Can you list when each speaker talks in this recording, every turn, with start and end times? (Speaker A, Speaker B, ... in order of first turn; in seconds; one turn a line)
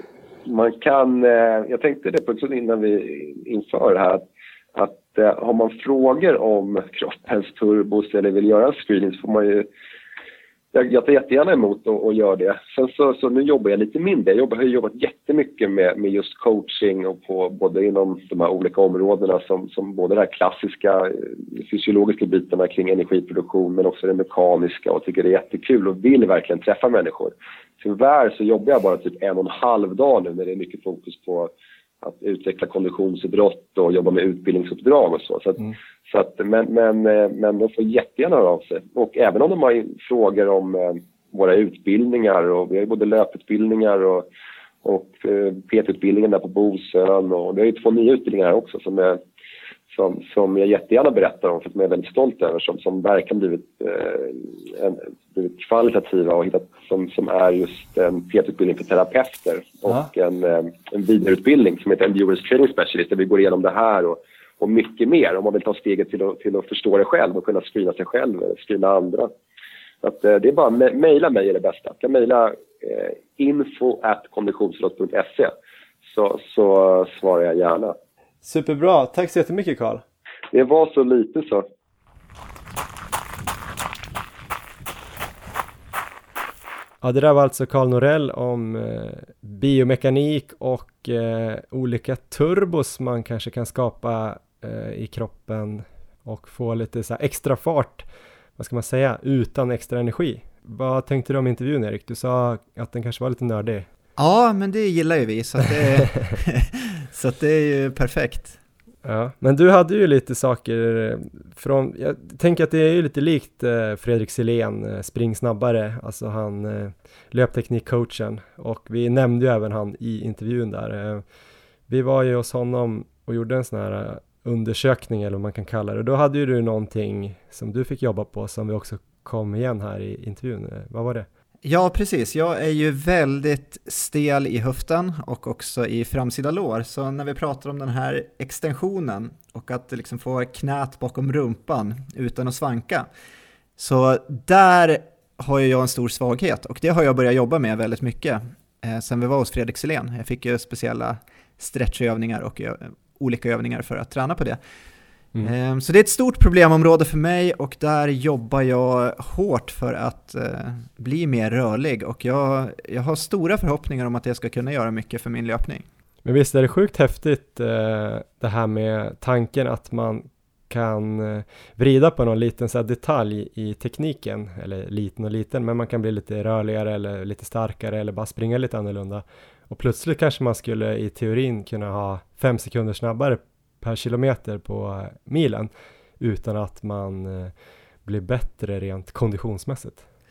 Speaker A: 0.5-9.7
Speaker A: 10.7-44.3
Speaker A: 44.8-49.2
Speaker A: 49.9-69.3
Speaker A: 70.0-75.5
Speaker A: 76.1-78.0
Speaker B: 78.4-80.0
Speaker A: 80.5-81.7
Speaker B: 87.0-103.9
Speaker C: 104.2-108.6
Speaker B: 109.0-121.2
Speaker B: 121.9-131.3
Speaker C: 131.6-143.1
Speaker C: 143.8-154.6
Speaker C: 155.4-165.8
Speaker B: 166.2-187.5
Speaker B: 188.1-190.0